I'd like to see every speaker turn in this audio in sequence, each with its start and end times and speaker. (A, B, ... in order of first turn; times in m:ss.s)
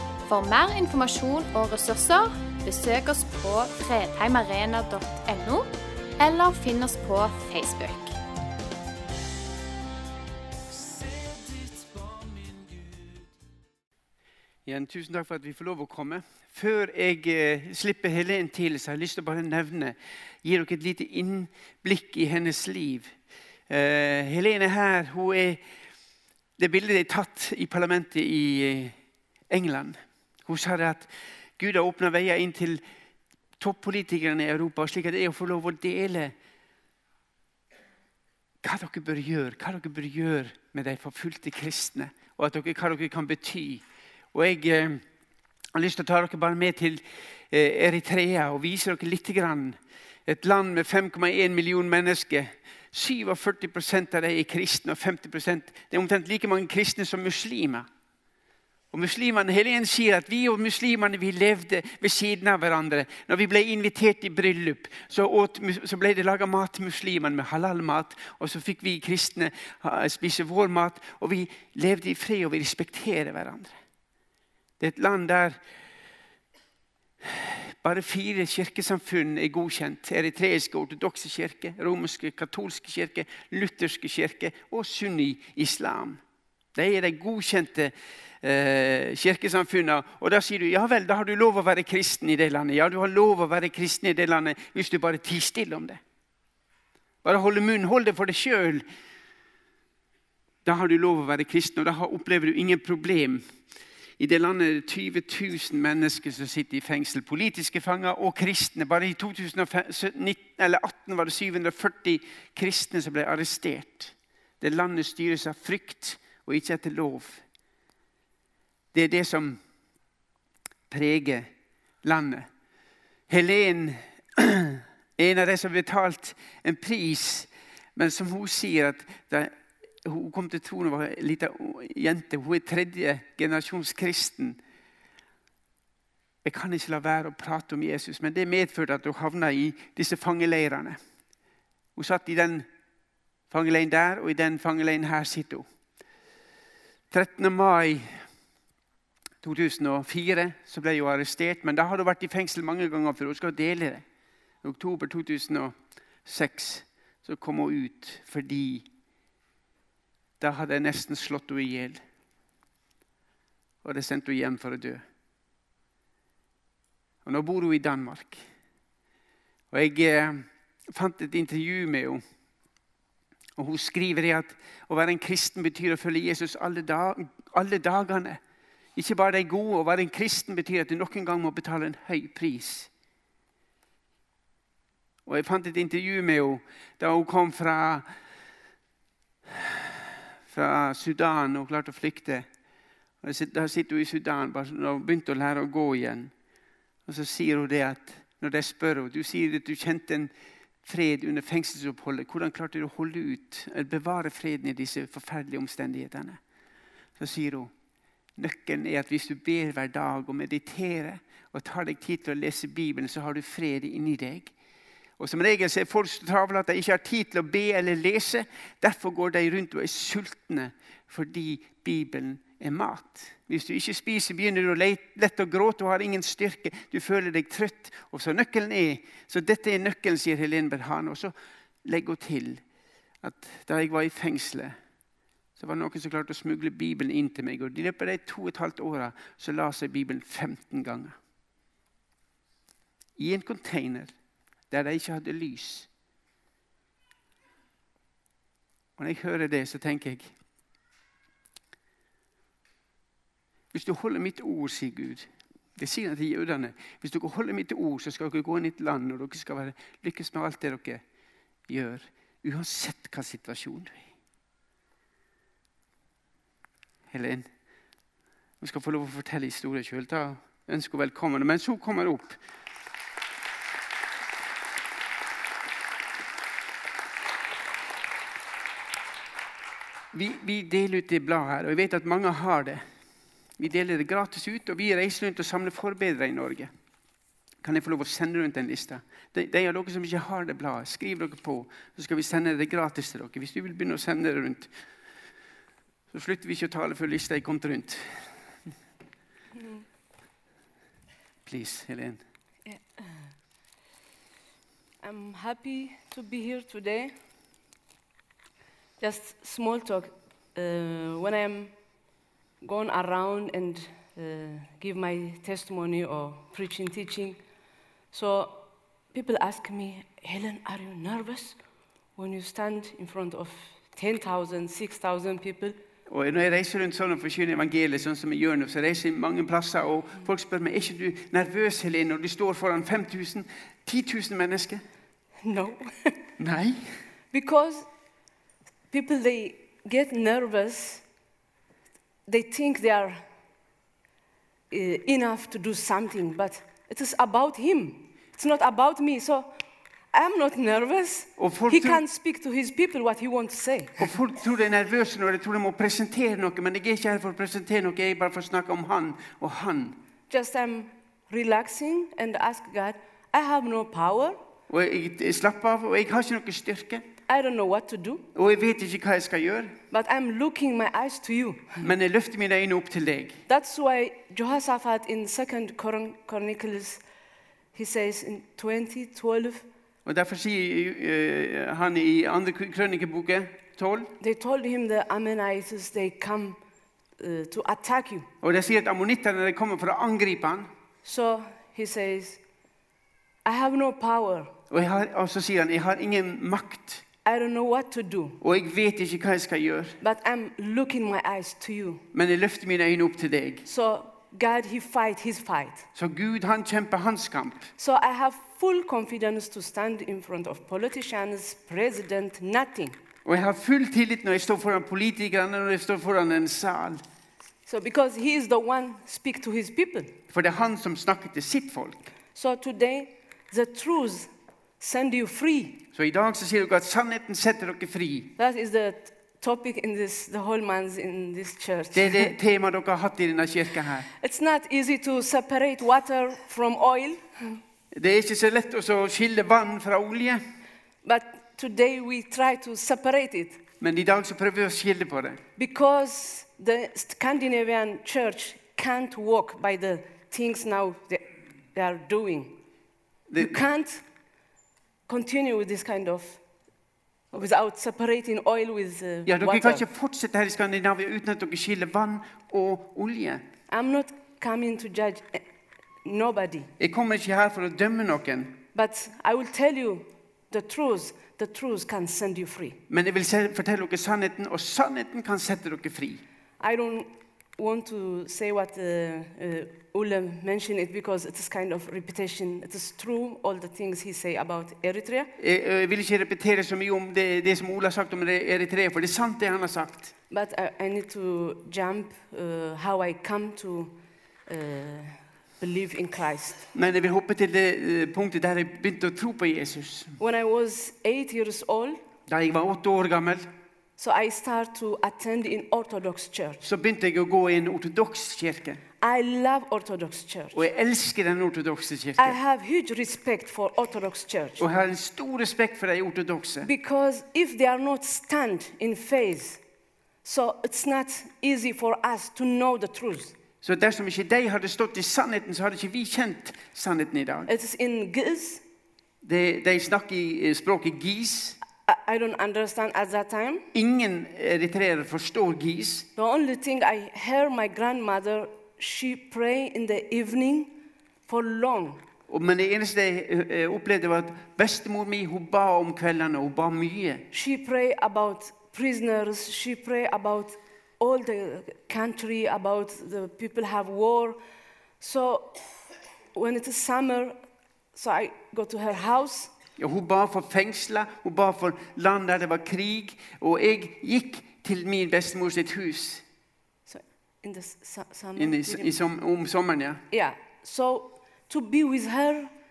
0:00.2-0:08.2 A
0:14.6-0:23.1 B
0:23.7-0:25.6 B
0:26.6-0:28.9 B
0:29.5-0:32.8 B
0:33.6-0:36.3 B
0:38.6-0:45.0 B
0:45.7-0:57.8 B
0:58.9-1:13.8 B
1:14.8-1:15.6 B
1:17.2-1:26.2 B
1:26.7-1:36.0 B
1:37.2-1:38.8 B
1:40.6-1:43.4 B
1:44.2-1:57.4 B
1:58.9-1:59.6 B
2:00.9-2:01.5 B
2:02.0-2:02.5 B
2:03.3-2:14.6 B
2:16.4-2:21.0 B
2:22.0-2:22.6 B
2:23.5-2:25.6 B
2:27.1-2:28.2 B
2:29.4-2:34.0 B
2:34.6-2:38.8 B
2:40.4-2:42.0 B
2:43.8-2:45.0 B
2:47.2-2:48.4 B
2:49.7-2:52.2 B
2:53.6-2:58.4 B
2:59.0-3:02.9 B
3:05.2-3:08.0 B
3:09.5-3:12.5 B
3:13.2-3:16.3 B
3:17.1-3:20.3 B
3:20.8-3:26.4 B
3:27.2-3:27.7 B
3:28.4-3:34.5 B
3:35.2-3:51.3 B
3:51.8-3:52.6 B
3:53.2-3:54.7 B
3:55.6-4:01.1 B
4:03.2-4:04.1 B
4:04.7-4:05.9 B
4:09.0-4:10.3 B
4:13.7-4:21.0 B
4:21.7-4:24.0 B
4:27.1-4:27.5 B
4:28.6-4:32.4 B
4:40.1-4:42.8 B
4:43.6-4:46.7 B
4:47.6-4:54.7 B
4:56.1-4:58.0 B
4:59.6-4:59.8 C
5:01.4-5:02.2 B
5:02.6-5:03.2 C
5:05.0-5:07.1 C
5:09.0-5:11.7 C
5:12.6-5:17.4 C
5:18.1-5:21.6 C
5:22.2-5:25.8 C
5:26.1-5:34.8 B
5:35.4-5:36.2 C
5:36.4-5:36.8 B
5:37.3-5:37.9 C
5:38.9-5:41.0 C
5:42.3-5:43.2 C
5:44.7-5:49.5 C
5:50.1-5:54.1 C
5:51.4-5:52.0 B
5:54.0-6:00.0 B
6:00.3-6:04.4 C
6:04.7-6:07.0 B
6:07.3-6:08.3 C
6:08.3-6:09.7 B
6:09.9-6:11.8 C
6:11.8-6:13.4 B
6:13.5-6:17.0 C
6:17.7-6:19.6 C
6:20.0-6:24.1 B
6:24.2-6:26.6 C
6:27.2-6:28.3 C
6:28.4-6:30.7 B
6:31.0-6:32.4 C
6:33.4-6:34.5 C
6:34.7-6:37.0 B
6:37.2-6:38.4 C
6:38.4-6:40.0 B
6:40.0-6:42.0 C
6:42.1-6:43.6 B
6:43.6-6:45.9 C
6:45.9-6:47.7 B
6:47.8-6:53.0 C
6:53.2-6:57.0 B
6:57.6-7:00.1 C
7:00.3-7:02.1 B
7:02.3-7:04.3 C
7:04.8-7:05.8 C
7:05.9-7:08.3 B
7:08.4-7:12.3 C
7:11.9-7:14.1 B
7:14.1-7:17.6 C
7:17.9-7:20.4 B
7:21.0-7:23.6 C
7:23.8-7:25.4 B
7:25.6-7:32.6 C
7:33.3-7:33.6 B
7:33.4-7:34.0 C
7:35.1-7:36.4 C
7:37.3-7:39.8 C
7:39.2-7:43.4 B
7:43.7-7:45.4 C
7:46.0-7:46.7 C
7:46.8-7:48.6 B
7:48.7-7:52.8 C
7:52.9-7:56.2 B
7:56.6-8:05.3 C
8:05.4-8:10.1 B
8:10.3-8:16.7 C
8:16.7-8:20.2 B
8:20.2-8:22.0 C
8:22.3-8:23.5 B
8:24.0-8:26.6 C
8:26.6-8:28.8 B
8:29.0-8:30.7 C
8:30.5-8:32.4 B
8:32.2-8:34.7 C
8:34.6-8:36.7 B
8:36.6-8:39.6 C
8:40.2-8:43.3 C
8:43.6-8:47.5 B
8:47.5-8:48.6 C
8:49.2-8:51.6 B
8:51.8-8:53.6 C
8:53.7-8:56.1 B
8:56.2-9:00.7 C
9:01.3-9:02.0 C
9:02.3-9:07.3 B
9:07.3-9:14.4 C
9:15.0-9:15.6 C
9:16.3-9:17.4 C
9:17.9-9:19.5 C
9:19.8-9:26.2 B
9:26.9-9:28.9 C
9:28.4-9:30.0 B
9:30.1-9:32.5 C